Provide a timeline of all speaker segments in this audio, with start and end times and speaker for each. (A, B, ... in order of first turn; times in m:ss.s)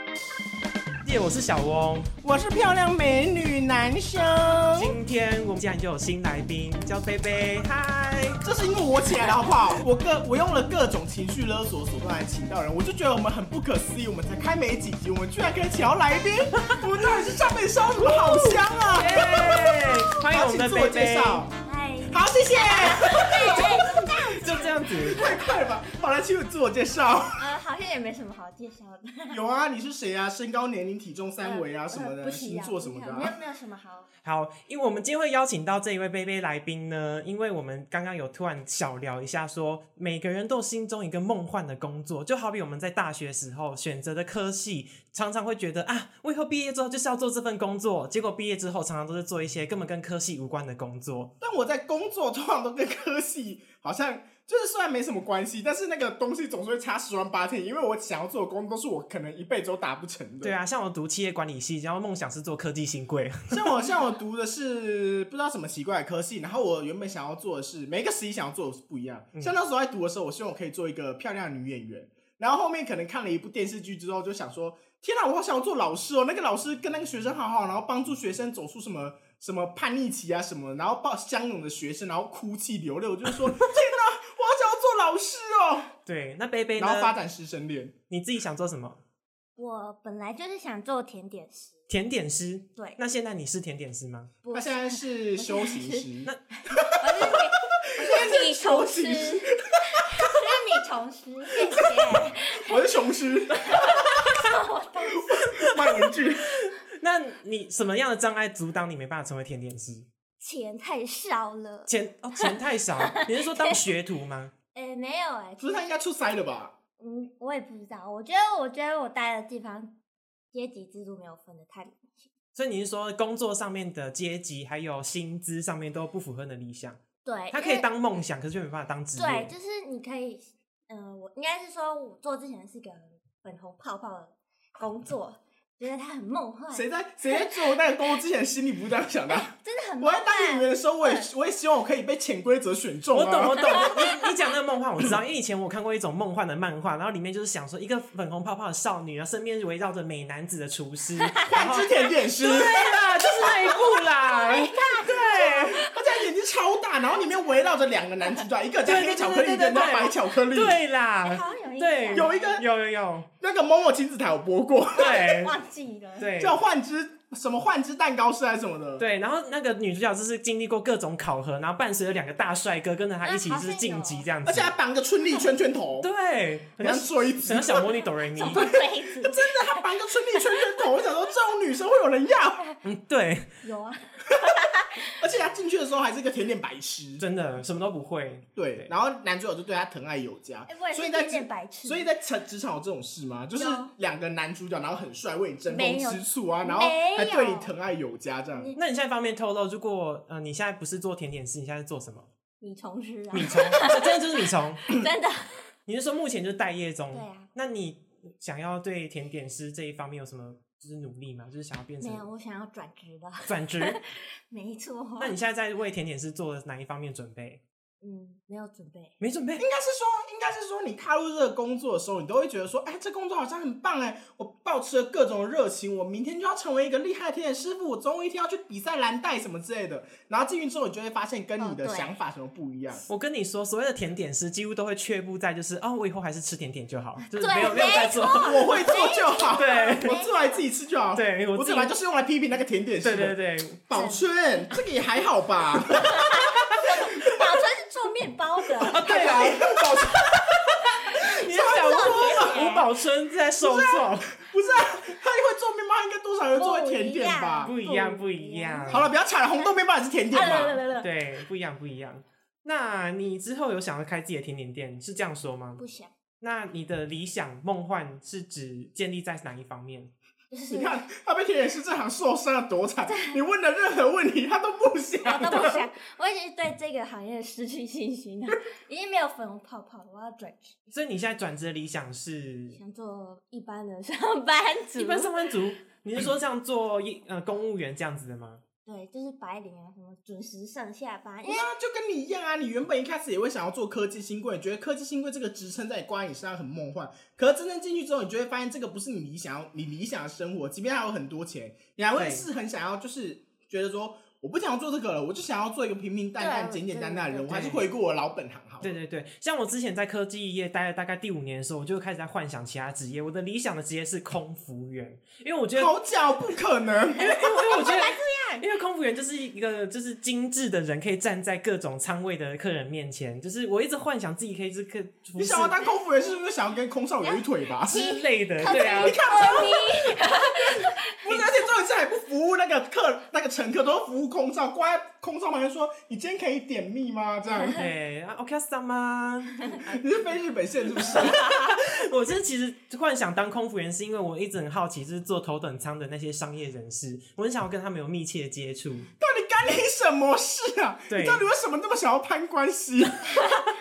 0:01.0-0:02.1 A
0:02.2-0:05.0 B
0:04.7-0:08.4 A
0:08.4-0:21.5 B
0:18.1-0:21.5 A
0:21.6-0:25.5 C
0:22.1-0:27.5 B
0:23.2-0:25.2 A
0:27.4-0:29.4 C
0:29.3-0:33.4 B
0:31.4-0:34.1 C
0:34.2-0:51.3 A
0:51.4-1:00.5 B
1:00.4-1:03.7 A
1:03.5-1:25.9 B
1:26.0-1:27.1 A
1:26.8-1:27.9 B
1:28.1-1:29.0 A
1:29.6-1:31.8 C
1:31.9-1:34.3 A
1:34.4-1:36.1 C
1:34.5-1:40.4 B
1:36.7-1:42.9 C
1:41.5-1:44.5 B
1:43.6-1:45.3 C
1:45.0-1:46.5 B
1:45.5-1:50.1 A
1:50.4-1:52.5 C
1:51.9-1:54.5 A
1:53.1-1:53.8 C
1:54.7-1:55.9 C
1:55.6-1:56.7 B
1:57.0-1:59.9 C
2:00.5-2:02.3 C
2:02.6-2:07.0 A
2:07.2-2:07.8 C
2:07.5-2:09.5 A
2:09.2-2:17.8 C
2:16.7-2:23.9 B
2:19.3-2:21.3 C
2:23.1-2:34.7 A
2:31.3-2:32.0 C
2:31.4-2:32.8 B
2:32.9-2:36.1 C
2:34.9-2:40.8 B
2:38.8-2:43.3 A
2:39.7-2:40.0 C
2:41.2-2:42.6 C
2:42.1-2:42.6 B
2:43.4-2:45.3 B
2:45.0-2:45.5 A
2:45.0-2:46.3 C
2:46.2-2:46.6 A
2:46.4-2:49.0 B
2:49.0-2:54.7 A
2:53.2-2:54.3 C
2:54.4-2:56.1 B
2:56.0-2:58.7 A
2:56.8-3:02.6 B
2:58.3-3:01.0 C
3:02.8-3:03.5 A
3:03.6-3:05.1 C
3:04.3-3:04.6 B
3:05.1-3:07.2 B
3:07.2-3:08.9 A
3:08.6-3:18.7 B
3:10.7-3:12.1 C
3:13.6-3:13.9 C
3:15.7-3:17.7 C
3:18.5-3:18.8 C
3:18.7-3:22.3 A
3:22.6-3:25.6 C
3:23.3-3:24.8 A
3:25.8-3:32.3 A
3:27.1-3:27.5 C
3:32.0-3:35.4 C
3:33.4-3:34.0 A
3:35.2-3:37.6 A
3:38.0-3:39.2 C
3:39.2-3:39.6 A
3:39.6-3:53.0 B
3:51.6-3:52.1 C
3:53.1-3:58.7 A
3:57.3-4:00.6 C
3:57.8-4:03.4 B
3:59.5-4:00.1 A
4:01.1-4:01.9 A
4:03.0-4:03.8 A
4:03.9-4:07.5 B
4:03.9-4:04.2 C
4:05.9-4:09.6 C
4:08.8-4:12.8 B
4:08.8-4:14.4 A
4:11.4-4:12.9 C
4:13.6-4:17.7 B
4:16.5-4:19.7 C
4:17.6-4:19.1 A
4:18.9-4:20.8 B
4:20.3-4:21.1 C
4:21.0-4:25.8 A
4:25.8-4:26.1 C
4:26.4-4:30.1 A
4:30.5-4:31.0 C
4:30.7-4:35.8 B
4:33.1-4:33.4 C
4:35.2-4:40.9 C
4:40.9-4:42.8 A
4:42.8-4:45.5 C
4:45.0-4:48.6 A
4:48.8-4:51.7 C
4:51.4-5:09.0 B
5:02.1-5:02.5 A
5:06.4-5:07.6 C
5:07.5-5:07.8 A
5:08.8-5:15.9 A
5:15.7-5:17.4 B
5:17.2-5:18.6 C
5:17.2-5:25.8 A
5:25.4-5:30.7 B
5:27.2-5:31.4 C
5:27.8-5:29.2 A
5:31.2-5:37.8 B
5:37.6-5:40.0 A
5:39.8-5:41.4 B
5:41.0-5:49.1 A
5:41.2-5:41.7 C
5:49.2-5:53.4 B
5:51.1-5:51.4 A